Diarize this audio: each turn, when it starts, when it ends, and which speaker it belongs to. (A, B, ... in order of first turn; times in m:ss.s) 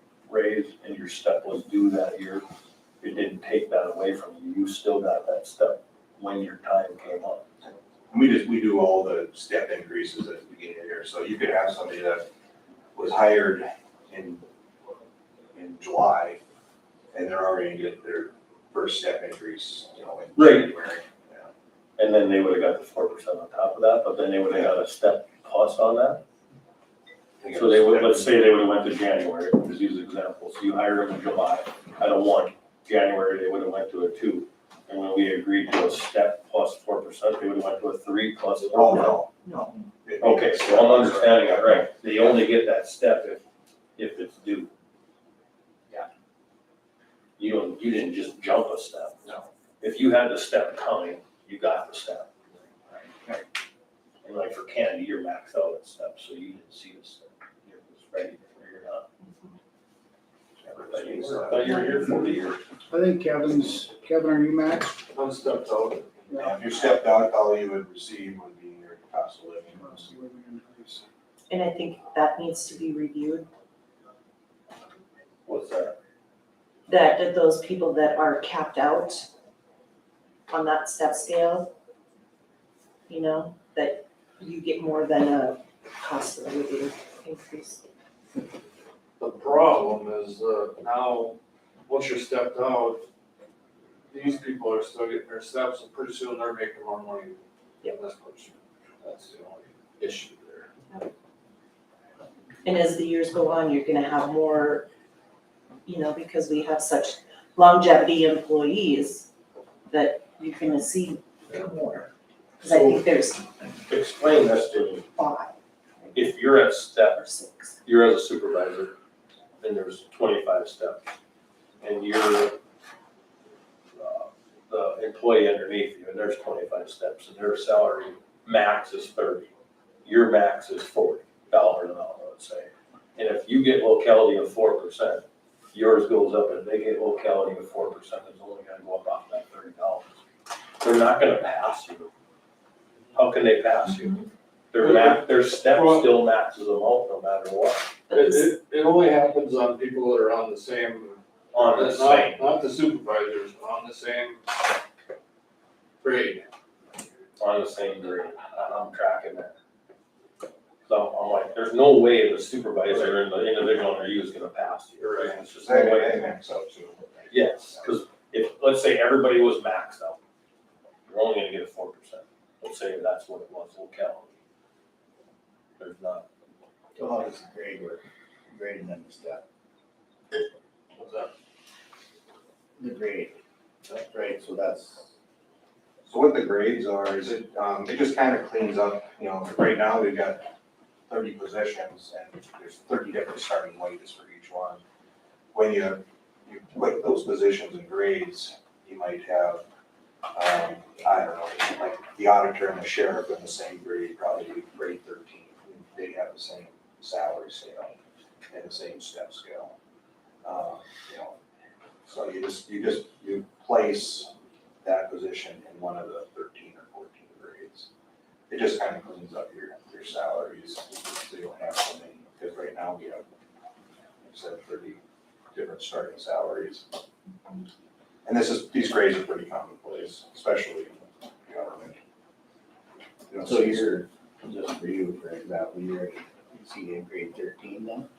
0:00.3-0:02.4 A
0:03.0-0:07.4 A
0:07.6-0:12.2 B
0:12.9-0:14.4 B
0:15.5-0:16.4 B
0:17.1-0:21.5 B
0:20.4-0:20.7 A
0:22.0-0:26.2 A
0:27.4-0:28.3 B
0:27.5-0:39.2 A
0:38.6-0:39.3 B
0:39.4-0:39.8 C
0:40.0-0:42.4 B
0:40.2-0:43.4 A
0:44.0-0:44.7 A
0:47.4-0:49.2 A
0:49.8-0:52.5 A
0:54.2-0:59.1 A
1:00.6-1:01.9 B
1:00.8-1:02.6 A
1:02.9-1:05.0 D
1:05.1-1:06.3 E
1:06.3-1:10.1 B
1:09.8-1:11.0 D
1:11.5-1:13.5 C
1:15.4-1:16.0 A
1:16.9-1:19.3 C
1:20.5-1:21.7 C
1:23.1-1:27.8 C
1:29.2-1:33.0 E
1:34.1-1:40.7 E
1:42.6-1:44.9 C
1:45.8-1:49.3 C
1:49.9-1:53.5 C
1:52.6-1:53.0 A
1:53.9-1:55.1 A
1:55.1-1:56.3 C
1:56.1-1:57.2 A
1:57.2-1:57.8 C
1:57.8-1:58.9 A
1:59.6-2:01.0 A
2:01.8-2:02.6 A
2:03.9-2:09.5 A
2:10.0-2:20.2 A
2:20.8-2:22.1 A
2:23.1-2:24.2 A
2:24.7-2:27.8 A
2:24.8-2:26.1 E
2:28.1-2:28.5 C
2:28.1-2:34.4 E
2:31.5-2:32.4 A
2:36.0-2:36.4 E
2:37.4-2:39.5 A
2:40.8-2:46.2 A
2:45.0-2:47.9 B
2:47.3-2:50.2 A
2:51.0-2:54.3 A
2:55.8-2:56.2 A
2:56.9-2:59.4 F
3:01.0-3:01.3 E
3:02.8-3:05.1 F
3:06.0-3:10.5 B
3:11.1-3:14.8 B
3:15.5-3:19.6 B
3:20.3-3:27.9 B
3:28.5-3:29.7 B
3:30.4-3:31.4 B
3:32.0-3:34.3 B
3:34.8-3:37.9 B
3:38.5-3:43.2 B
3:44.2-3:45.0 B
3:45.5-3:46.8 B
3:48.2-3:52.0 B
3:53.3-3:54.0 B
3:53.4-3:58.1 F